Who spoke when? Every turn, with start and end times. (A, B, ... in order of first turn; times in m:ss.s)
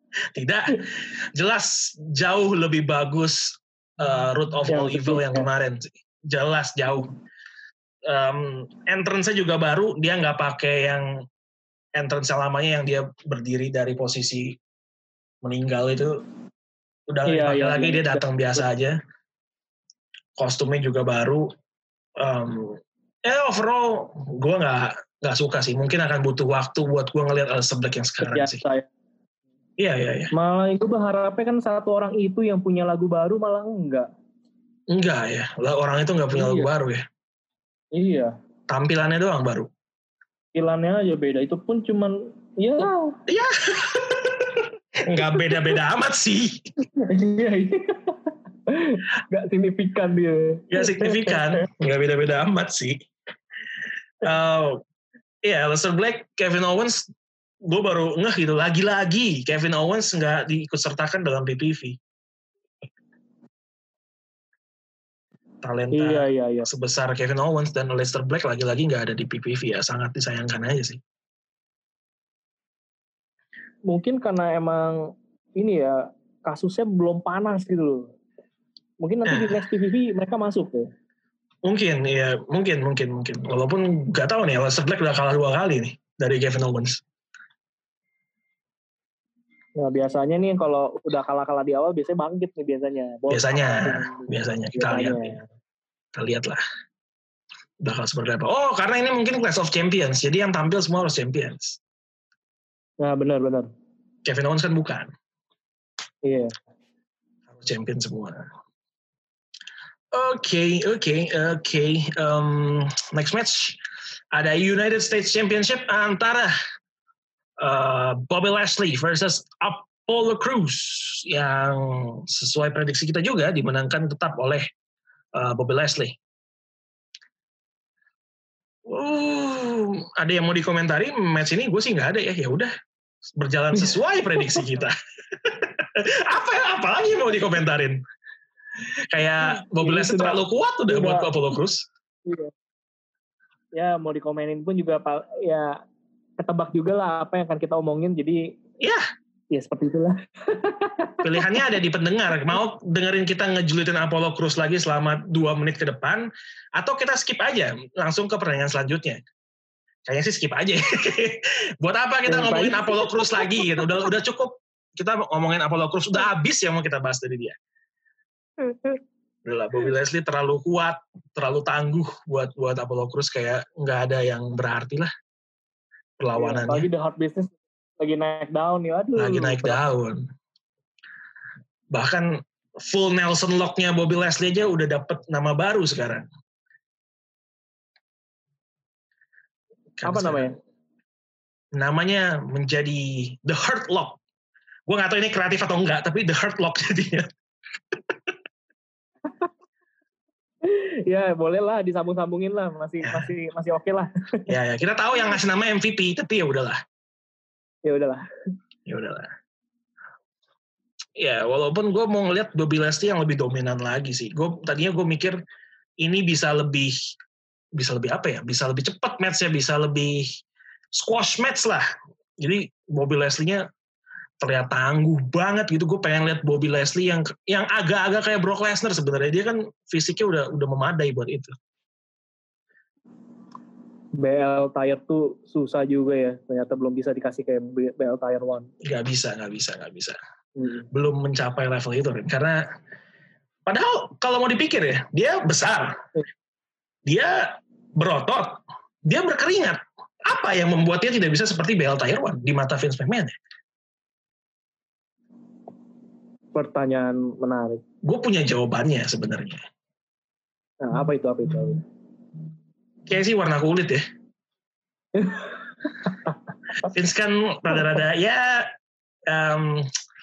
0:00.3-0:07.1 A
0:04.7-0:05.5 B
0:08.1-0:11.2 A
0:12.0-0:14.6 A
0:15.4-0:16.2 A
0:17.1-0:19.0 A
0:17.3-0:18.3 B
0:20.4-0:21.5 A
0:22.2-0:28.6 A
0:28.2-0:28.9 B
0:29.8-0:30.3 A
0:30.3-0:34.1 B
0:34.9-0:37.1 A
0:36.3-0:36.7 B
0:38.0-0:38.3 B
0:38.7-0:39.7 A
0:40.6-0:43.2 B
0:43.3-0:46.6 A
0:47.0-0:51.6 B
0:50.7-0:53.0 A
0:54.2-0:54.8 A
0:55.4-0:57.0 A
0:57.6-1:02.0 A
1:05.6-1:11.0 A
1:05.9-1:06.7 B
1:13.9-1:15.0 B
1:15.6-1:18.1 B
1:19.0-1:20.9 B
1:19.3-1:19.6 A
1:21.6-1:27.0 A
1:29.8-1:35.4 B
1:33.3-1:35.4 A
1:36.1-1:36.6 A
1:37.8-1:41.8 A
1:43.0-1:43.7 B
1:44.2-1:45.1 A
1:46.2-1:46.5 B
1:47.5-1:48.5 A
1:50.1-1:53.8 A
1:54.3-1:56.5 A
1:57.6-2:04.7 A
2:05.4-2:06.2 A
2:08.9-2:12.7 A
2:13.3-2:18.0 A
2:19.1-2:21.8 A
2:19.5-2:21.3 B
2:22.3-2:22.5 B
2:23.8-2:25.8 B
2:26.4-2:28.5 B
2:28.8-2:29.1 A
2:29.5-2:31.2 B
2:31.2-2:39.2 A
2:40.1-2:47.6 A
2:42.3-2:43.8 B
2:48.6-2:49.0 B
2:49.4-2:55.1 A
2:56.2-2:56.9 A
2:56.3-2:59.8 B
2:59.2-3:00.2 A
3:01.9-3:06.3 A
3:10.0-3:10.5 A
3:10.0-3:10.6 B
3:11.8-3:14.2 A
3:14.9-3:17.3 A
3:17.9-3:18.3 A
3:20.6-3:24.5 B
3:23.0-3:23.3 A
3:24.5-3:26.8 A
3:27.9-3:28.2 B
3:28.9-3:29.3 A
3:31.2-3:35.4 A
3:36.0-3:37.0 A
3:37.8-3:40.3 A
3:40.9-3:41.9 A
3:42.4-3:43.6 A
3:44.4-3:51.5 A
3:54.2-3:58.7 B
3:58.8-4:00.2 A
4:00.6-4:00.9 B
4:00.9-4:02.6 A
4:03.7-4:06.0 A
4:07.1-4:13.4 A
4:16.5-4:17.8 B
4:18.0-4:19.6 A
4:20.8-4:21.8 B
4:23.1-4:24.0 A
4:25.2-4:25.5 B
4:26.8-4:28.7 A
4:29.3-4:29.9 A